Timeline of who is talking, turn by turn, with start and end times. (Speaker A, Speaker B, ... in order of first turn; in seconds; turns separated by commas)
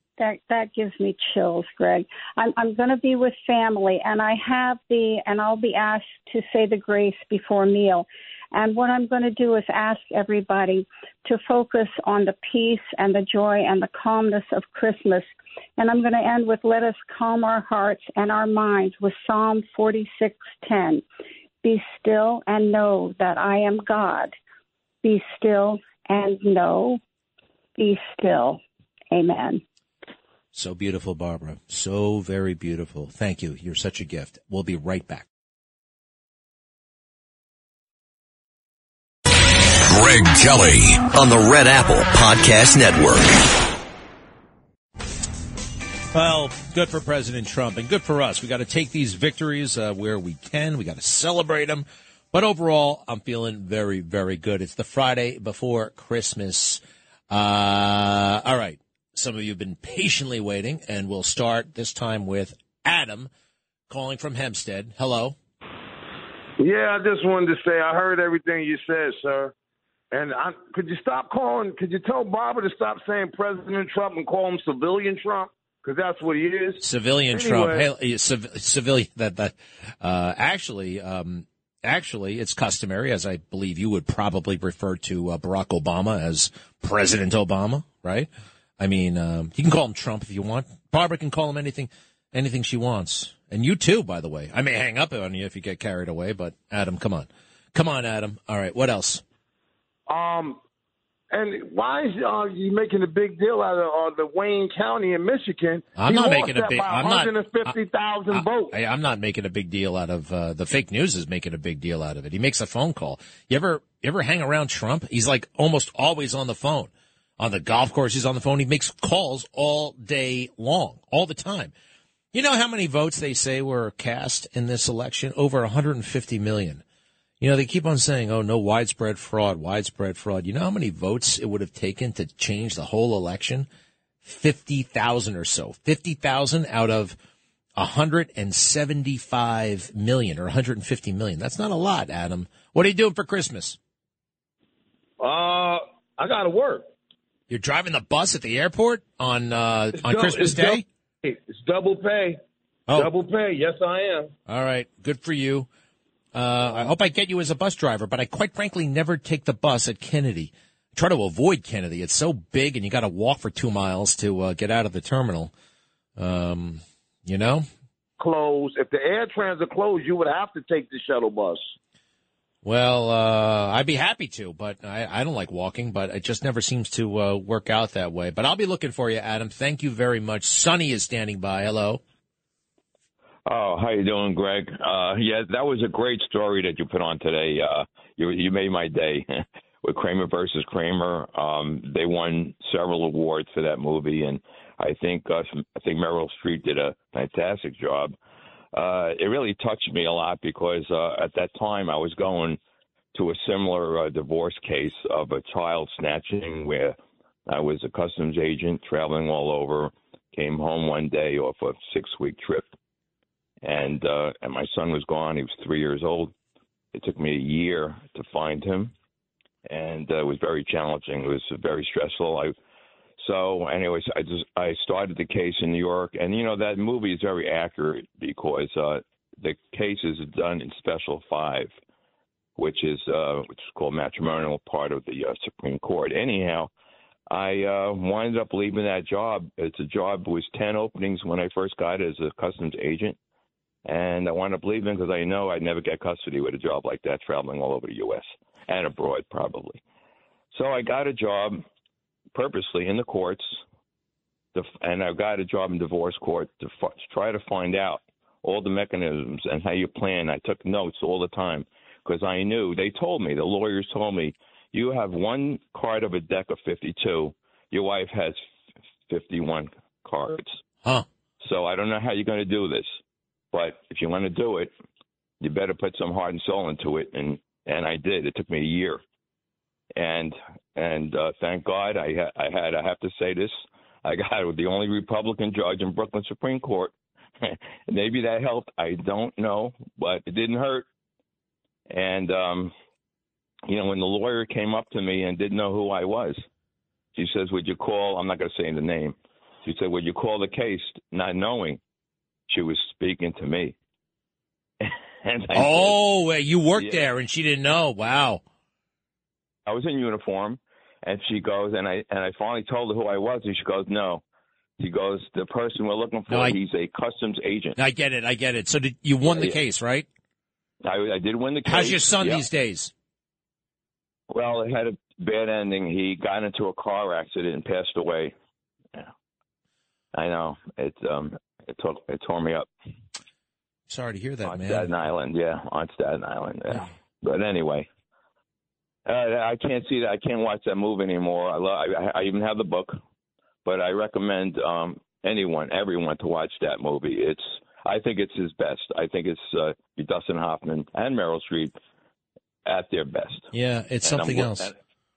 Speaker A: 0.2-21.0, Speaker A: 21.6-24.3, Speaker A: 25.0-27.0, Speaker A: 27.8-29.6, Speaker B: 30.5-35.3, Speaker C: 39.8-43.3, Speaker B: 46.1-63.3, Speaker B: 63.9-65.4, Speaker D: 66.6-69.5, Speaker D: 70.1-77.8, Speaker B: 76.8-99.2, Speaker D: 100.1-100.6, Speaker D: 101.3-108.8, Speaker B: 106.0-107.8, Speaker B: 108.3-121.7, Speaker B: 122.3-126.8, Speaker B: 127.4-133.7, Speaker B: 134.2-137.2, Speaker B: 137.8-143.8, Speaker D: 145.2-146.9, Speaker B: 147.5-150.8, Speaker D: 150.0-152.4, Speaker D: 152.9-154.3, Speaker B: 154.5-155.7, Speaker B: 156.3-165.5, Speaker B: 166.2-167.7, Speaker D: 168.2-171.7, Speaker B: 172.6-182.0, Speaker E: 183.5-198.2, Speaker E: 198.7-202.6, Speaker E: 203.1-207.0, Speaker E: 207.5-212.7, Speaker E: 213.6-216.3, Speaker E: 216.9-218.9, Speaker E: 219.7-222.6, Speaker E: 223.2-231.7, Speaker E: 232.6-236.7, Speaker E: 237.3-243.2, Speaker E: 243.8-249.8, Speaker E: 250.5-251.6, Speaker E: 252.3-253.6, Speaker E: 254.5-268.4, Speaker E: 269.1-270.5, Speaker E: 271.4-272.9, Speaker E: 273.5-274.7, Speaker E: 275.4-279.0, Speaker E: 279.9-290.9, Speaker E: 291.9-292.7, Speaker E: 293.7-296.4, Speaker E: 297.1-301.8, Speaker E: 302.5-303.8, Speaker E: 304.9-306.0, Speaker B: 305.5-308.4, Speaker E: 306.8-307.0, Speaker E: 309.7-314.2, Speaker E: 314.8-317.8, Speaker B: 316.3-316.6, Speaker B: 317.8-320.1, Speaker E: 319.2-319.6, Speaker E: 320.8-322.4, Speaker B: 321.6-322.9, Speaker E: 324.3-328.4, Speaker E: 330.1-332.7, Speaker B: 333.9-334.9, Speaker E: 334.4-337.9, Speaker E: 339.1-343.0, Speaker E: 343.6-351.8, Speaker E: 352.7-353.5, Speaker B: 353.5-354.7, Speaker E: 354.0-354.8